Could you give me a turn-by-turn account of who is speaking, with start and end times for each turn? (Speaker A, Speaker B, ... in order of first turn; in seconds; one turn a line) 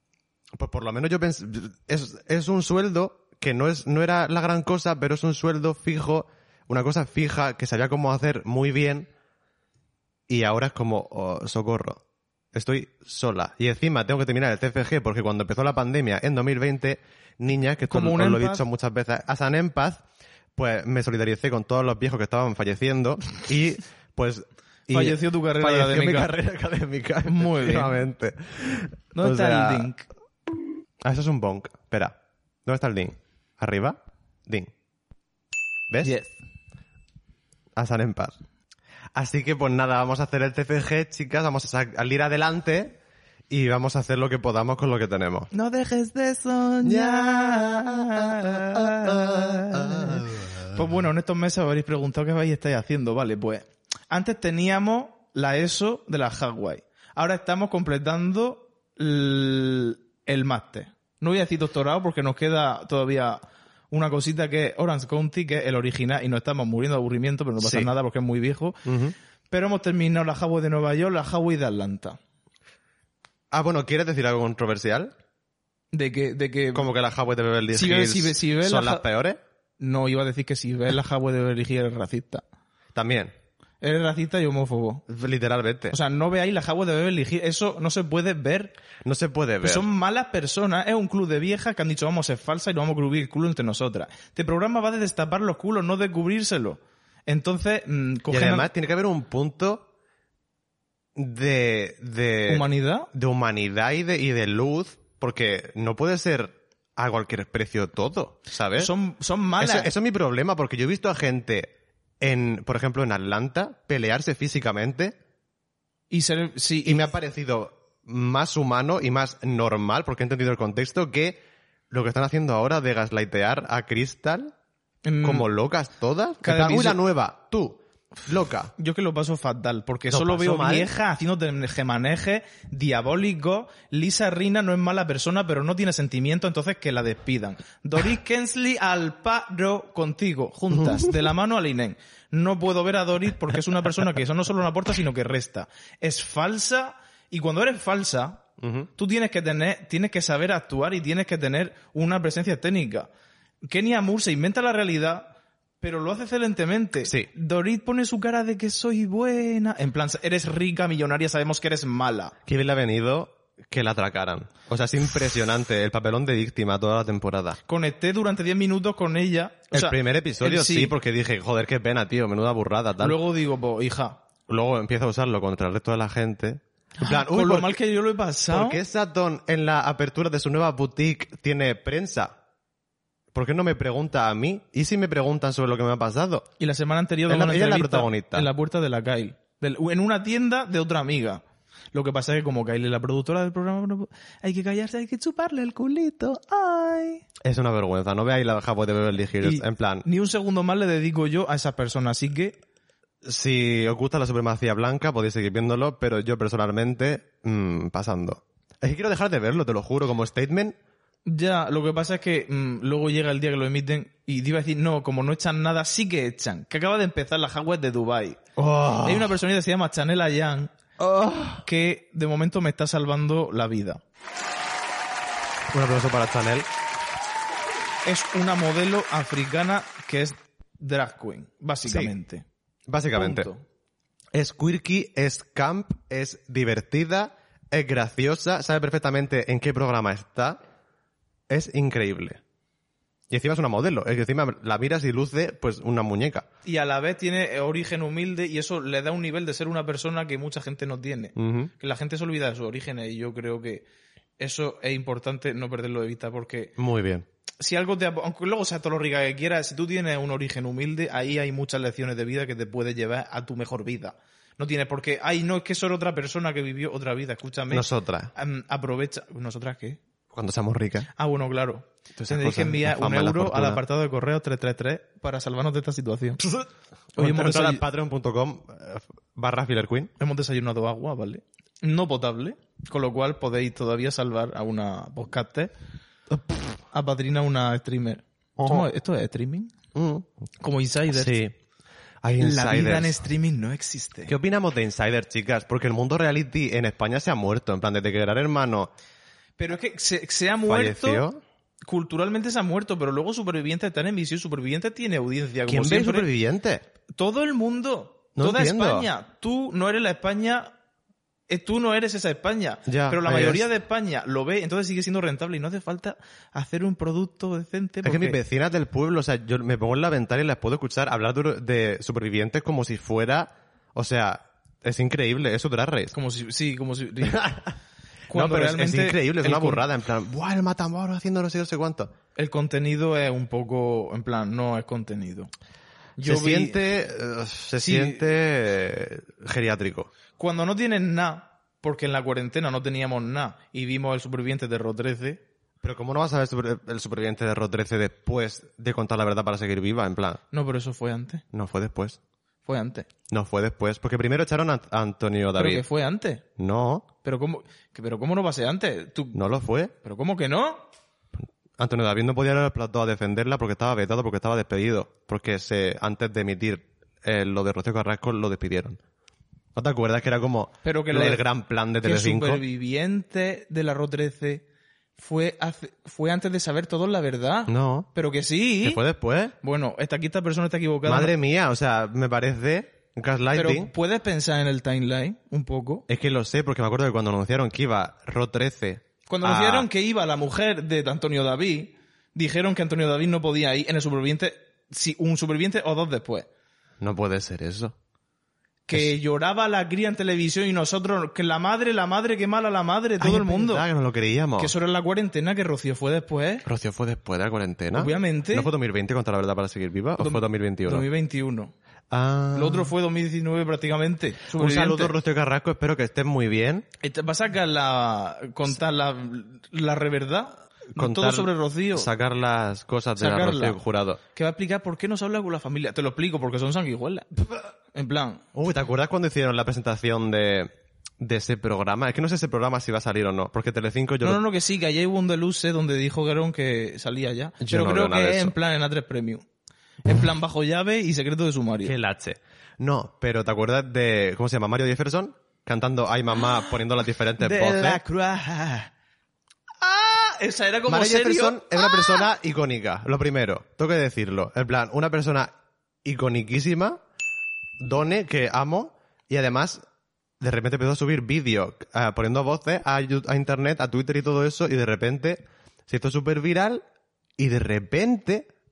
Speaker A: 0.5-9.1
Speaker A: 10.3-12.0
Speaker A: 12.5-20.0
Speaker B: 17.9-18.6
Speaker A: 20.6-29.9
Speaker B: 24.9-26.3
Speaker B: 27.2-27.9
Speaker B: 29.1-30.1
Speaker A: 31.0-34.7
Speaker B: 36.0-36.3
Speaker A: 37.7-38.3
Speaker A: 39.1-43.0
Speaker A: 43.5-45.5
Speaker B: 45.5-68.8
Speaker A: 46.8-50.8
Speaker A: 67.6-67.9
Speaker A: 68.8-69.1
Speaker B: 69.5-72.2
Speaker A: 73.5-75.1
Speaker B: 75.9-76.9
Speaker A: 76.7-79.4
Speaker B: 77.7-79.0
Speaker B: 79.8-82.4
Speaker A: 82.9-83.3
Speaker B: 83.8-85.0
Speaker A: 85.1-86.0
Speaker B: 85.9-88.7
Speaker A: 89.0-89.8
Speaker B: 89.6-98.7
Speaker A: 98.3-99.8
Speaker A: 101.1-108.9
Speaker B: 102.5-103.1
Speaker B: 108.8-109.9
Speaker A: 109.6-115.1
Speaker B: 116.1-117.1
Speaker A: 116.8-124.5
Speaker B: 125.0-125.5
Speaker A: 125.2-128.7
Speaker B: 126.4-127.0
Speaker B: 128.8-148.4
Speaker A: 130.1-130.9
Speaker A: 140.8-141.0
Speaker A: 148.6-148.9
Speaker B: 149.0-153.1
Speaker B: 153.6-162.3
Speaker A: 162.4-167.6
Speaker B: 167.7-170.9
Speaker A: 169.7-173.2
Speaker B: 173.0-174.2
Speaker A: 174.5-177.8
Speaker B: 177.0-178.8
Speaker A: 178.5-182.3
Speaker A: 183.3-186.4
Speaker B: 186.6-197.2
Speaker A: 187.3-188.5
Speaker A: 197.4-200.1
Speaker B: 199.4-202.6
Speaker A: 203.2-210.8
Speaker B: 211.3-218.4
Speaker A: 218.6-219.3
Speaker B: 219.0-220.7
Speaker A: 221.0-221.6
Speaker B: 221.6-224.0
Speaker A: 225.7-226.7
Speaker B: 228.0-232.4
Speaker A: 231.8-232.1
Speaker A: 232.9-233.5
Speaker B: 233.1-233.6
Speaker A: 234.3-240.6
Speaker A: 241.5-242.4
Speaker A: 243.3-246.5
Speaker B: 246.6-253.8
Speaker A: 251.3-251.7
Speaker B: 254.4-256.7
Speaker A: 256.8-257.2
Speaker B: 257.6-270.0
Speaker A: 267.7-268.3
Speaker A: 270.3-271.1
Speaker B: 271.1-276.4
Speaker A: 272.1-273.8
Speaker B: 277.1-277.8
Speaker A: 277.1-280.1
Speaker B: 280.2-285.7
Speaker B: 286.9-289.7
Speaker A: 288.6-288.9
Speaker A: 289.9-290.3
Speaker B: 290.6-291.4
Speaker A: 291.1-291.5
Speaker A: 292.2-293.2
Speaker B: 292.4-294.3
Speaker A: 294.3-298.9
Speaker B: 299.6-301.2
Speaker A: 300.7-301.4
Speaker B: 301.8-306.3
Speaker A: 305.7-306.8
Speaker B: 307.1-310.7
Speaker A: 308.4-309.1
Speaker B: 311.5-318.4
Speaker A: 312.9-313.7
Speaker A: 318.0-326.1
Speaker B: 326.1-327.5
Speaker A: 327.2-327.7
Speaker B: 328.3-329.8
Speaker A: 328.3-332.1
Speaker B: 332.4-335.5
Speaker B: 336.2-336.8
Speaker A: 336.2-340.1
Speaker B: 337.8-338.2
Speaker B: 340.4-345.4
Speaker A: 345.8-350.4
Speaker B: 350.5-351.4
Speaker A: 351.5-352.2
Speaker B: 352.6-353.1
Speaker A: 353.3-355.8
Speaker B: 355.6-356.4
Speaker A: 356.6-357.1
Speaker B: 357.2-359.4
Speaker A: 359.3-359.9
Speaker B: 360.0-360.9
Speaker A: 361.8-369.0
Speaker A: 369.7-372.6
Speaker B: 370.8-371.4
Speaker B: 372.0-374.6
Speaker B: 375.2-379.0
Speaker A: 377.7-378.1
Speaker A: 378.8-379.5
Speaker B: 379.6-381.3
Speaker A: 381.1-383.9
Speaker B: 383.5-386.1
Speaker A: 386.1-389.9
Speaker B: 389.3-396.5
Speaker A: 397.0-397.9
Speaker B: 398.9-403.8
Speaker A: 403.2-404.7
Speaker B: 404.6-406.6
Speaker A: 406.6-411.1
Speaker B: 407.9-408.7
Speaker B: 410.2-411.7
Speaker A: 412.1-412.9
Speaker B: 412.5-415.1
Speaker A: 414.5-416.9
Speaker B: 417.0-422.1
Speaker A: 420.9-424.2
Speaker B: 423.2-423.8
Speaker B: 424.3-428.4
Speaker A: 428.5-434.4
Speaker B: 434.2-439.4
Speaker A: 437.6-438.5
Speaker B: 440.0-441.9
Speaker A: 441.8-448.0
Speaker B: 447.4-448.9
Speaker B: 449.8-452.2
Speaker A: 450.9-455.5
Speaker A: 456.0-457.0
Speaker A: 457.8-459.8
Speaker A: 460.4-466.8
Speaker A: 467.4-468.5